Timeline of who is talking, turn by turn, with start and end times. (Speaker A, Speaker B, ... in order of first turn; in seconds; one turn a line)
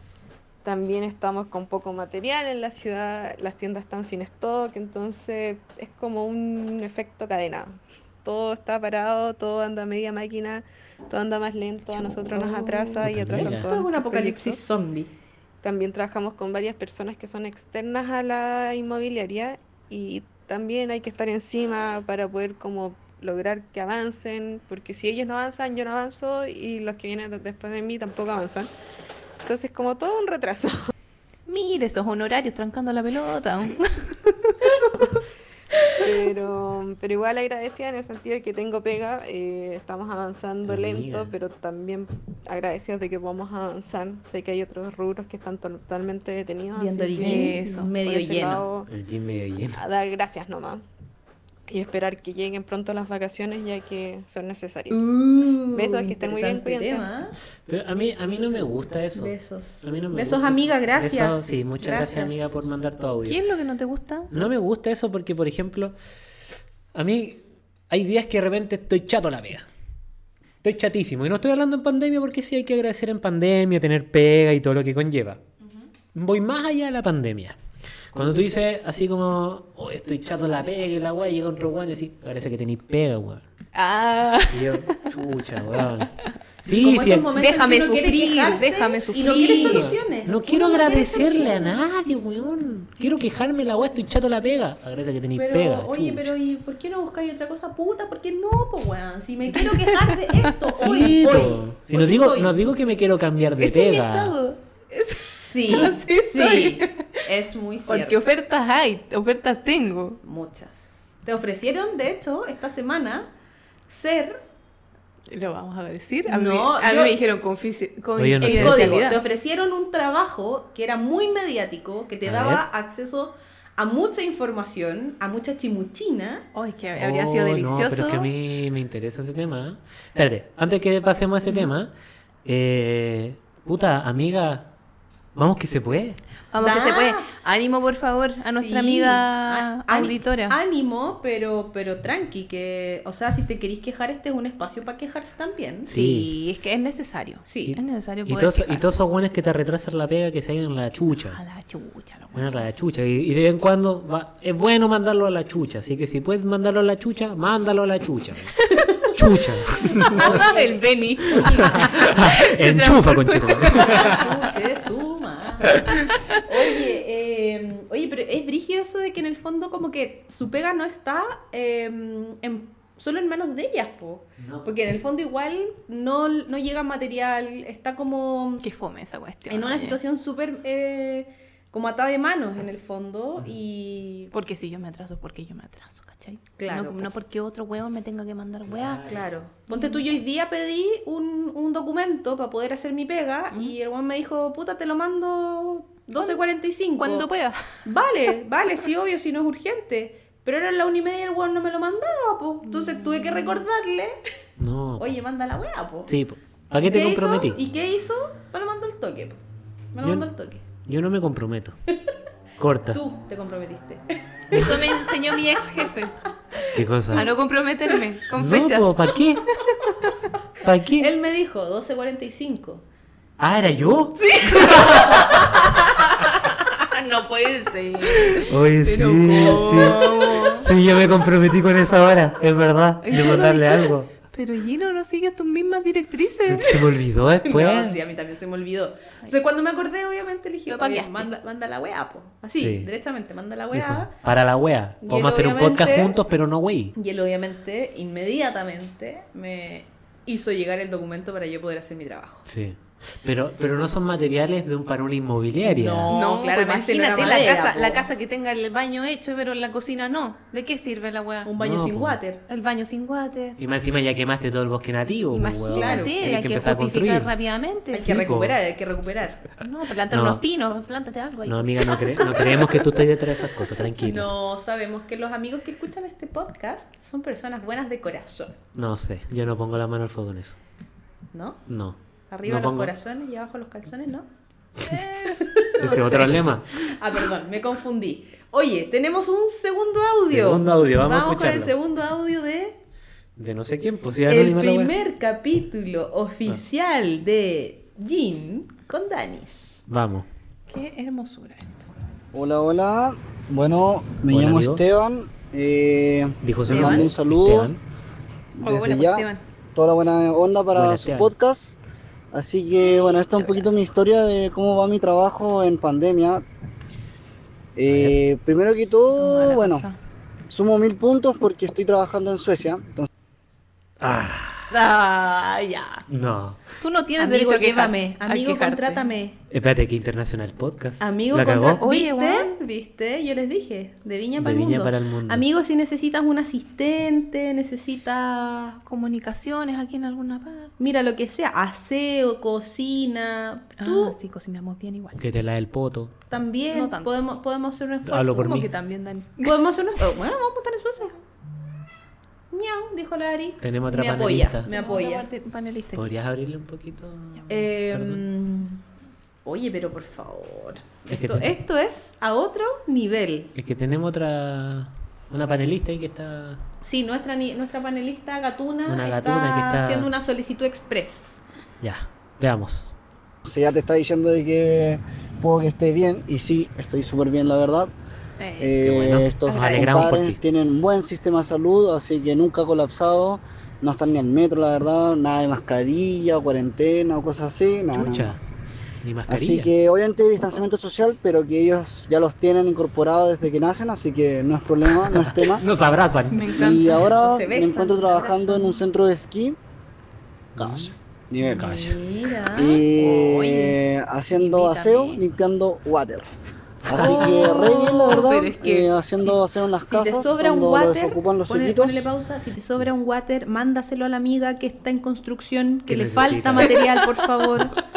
Speaker A: 0.6-14.6
Speaker B: 11.9-15.1
Speaker C: 13.0-13.7
Speaker A: 15.6-28.7
Speaker A: 29.4-30.8
Speaker D: 31.5-35.0
Speaker A: 35.9-48.9
Speaker C: 40.7-41.3
Speaker B: 46.7-48.6
Speaker D: 47.2-47.9
Speaker C: 48.9-49.8
Speaker A: 49.7-50.8
Speaker A: 51.7-55.0
Speaker B: 54.9-57.4
Speaker A: 55.7-57.1
Speaker C: 57.6-63.4
Speaker B: 59.1-62.5
Speaker D: 63.2-64.3
Speaker C: 64.3-65.9
Speaker C: 66.9-69.7
Speaker C: 70.6-75.4
Speaker C: 76.1-77.6
Speaker C: 78.1-83.4
Speaker D: 83.7-85.1
Speaker C: 84.5-87.3
Speaker B: 86.7-91.8
Speaker D: 87.3-89.9
Speaker C: 89.2-96.3
Speaker B: 95.3-102.6
Speaker D: 99.6-101.0
Speaker C: 100.7-104.3
Speaker D: 103.6-107.2
Speaker B: 105.4-108.2
Speaker D: 107.9-110.2
Speaker B: 110.2-113.3
Speaker B: 113.9-114.4
Speaker D: 115.3-119.2
Speaker B: 116.3-117.2
Speaker C: 118.2-119.0
Speaker B: 118.4-126.5
Speaker C: 122.2-122.6
Speaker D: 126.5-128.3
Speaker C: 127.0-131.9
Speaker C: 132.4-134.7
Speaker C: 135.3-136.2
Speaker D: 136.5-140.6
Speaker B: 136.6-137.3
Speaker B: 138.4-145.9
Speaker C: 145.9-146.3
Speaker D: 145.9-149.0
Speaker B: 147.4-147.8
Speaker C: 147.7-151.4
Speaker D: 151.2-152.7
Speaker C: 152.3-158.5
Speaker D: 158.6-158.9
Speaker C: 159.1-160.4
Speaker D: 159.9-164.3
Speaker B: 160.0-162.0
Speaker C: 161.4-164.3
Speaker B: 163.7-178.6
Speaker D: 166.1-166.4
Speaker C: 174.4-174.7
Speaker D: 178.6-180.0
Speaker B: 179.5-184.3
Speaker D: 184.3-189.0
Speaker B: 186.6-187.1
Speaker C: 188.7-189.3
Speaker B: 189.0-197.3
Speaker D: 189.7-190.1
Speaker D: 197.0-197.8
Speaker B: 197.8-204.2
Speaker C: 204.6-205.1
Speaker B: 205.0-206.1
Speaker C: 206.1-207.6
Speaker B: 206.8-209.4
Speaker B: 209.9-210.6
Speaker C: 210.0-210.3
Speaker C: 210.8-211.8
Speaker C: 212.6-213.0
Speaker B: 212.9-214.0
Speaker D: 214.5-216.2
Speaker C: 216.7-217.3
Speaker D: 217.1-219.1
Speaker C: 218.3-219.4
Speaker D: 219.7-220.2
Speaker C: 220.6-221.1
Speaker B: 220.9-222.8
Speaker C: 223.4-225.4
Speaker D: 224.3-230.7
Speaker C: 228.2-234.1
Speaker D: 233.0-236.7
Speaker C: 236.5-238.0
Speaker B: 237.4-244.1
Speaker D: 240.7-241.3
Speaker C: 242.6-242.9
Speaker C: 243.7-246.9
Speaker B: 245.0-246.2
Speaker B: 246.9-252.4
Speaker C: 252.4-256.1
Speaker B: 255.6-258.1
Speaker D: 256.1-261.5
Speaker B: 261.4-262.4
Speaker C: 261.6-262.2
Speaker D: 262.5-263.6
Speaker C: 263.6-267.3
Speaker D: 265.3-268.1
Speaker B: 265.7-266.3
Speaker B: 267.9-269.5
Speaker C: 268.0-268.6
Speaker D: 269.6-272.8
Speaker C: 270.1-270.4
Speaker C: 271.4-274.3
Speaker B: 274.0-278.6
Speaker C: 278.7-280.6
Speaker B: 281.3-281.6
Speaker C: 281.7-282.9
Speaker B: 282.3-284.3
Speaker D: 284.8-286.3
Speaker B: 285.2-292.8
Speaker C: 285.8-286.7
Speaker C: 290.3-291.7
Speaker C: 293.4-294.9
Speaker B: 294.3-299.8
Speaker C: 299.9-300.3
Speaker D: 300.7-301.9
Speaker E: 302.3-307.8
Speaker C: 304.3-304.8
Speaker C: 306.4-307.8
Speaker B: 306.7-307.1
Speaker E: 308.6-311.8
Speaker D: 308.6-309.4
Speaker C: 310.7-311.3
Speaker E: 312.3-316.4
Speaker D: 312.8-313.7
Speaker E: 317.8-319.9
Speaker C: 317.9-318.2
Speaker D: 319.1-320.0
Speaker E: 320.5-323.1
Speaker C: 324.0-324.7
Speaker D: 324.7-326.0
Speaker C: 326.1-326.6
Speaker D: 326.8-329.1
Speaker B: 327.2-329.4
Speaker C: 329.5-331.8
Speaker B: 331.0-338.8
Speaker D: 331.8-332.5
Speaker C: 334.4-335.4
Speaker D: 338.8-340.7
Speaker B: 340.8-344.1
Speaker D: 343.8-345.2
Speaker C: 345.1-346.1
Speaker B: 346.3-348.6
Speaker D: 346.7-347.1
Speaker C: 348.0-348.7
Speaker D: 348.3-349.5
Speaker B: 349.4-351.1
Speaker B: 352.5-355.3
Speaker C: 353.6-354.7
Speaker D: 354.7-356.1
Speaker C: 355.9-358.2
Speaker B: 357.5-358.8
Speaker B: 359.4-363.5
Speaker C: 361.1-361.5
Speaker C: 363.5-366.6
Speaker B: 366.8-371.4
Speaker C: 368.9-370.1
Speaker C: 371.8-372.9
Speaker E: 373.4-377.9
Speaker D: 378.4-378.8
Speaker E: 378.6-388.4
Speaker C: 378.8-380.4
Speaker B: 379.5-380.0
Speaker C: 387.9-388.4
Speaker C: 389.0-389.7
Speaker E: 389.3-395.6
Speaker C: 395.0-396.5
Speaker D: 396.3-397.1
Speaker E: 396.5-399.6
Speaker B: 397.1-398.8
Speaker E: 400.6-401.8
Speaker C: 400.6-400.9
Speaker B: 401.4-402.8
Speaker C: 401.5-402.0
Speaker E: 402.5-406.3
Speaker D: 402.6-403.8
Speaker D: 404.3-405.2
Speaker E: 406.9-412.1
Speaker D: 406.9-409.4
Speaker B: 406.9-408.3
Speaker B: 409.9-417.8
Speaker C: 415.9-416.8
Speaker D: 416.8-417.5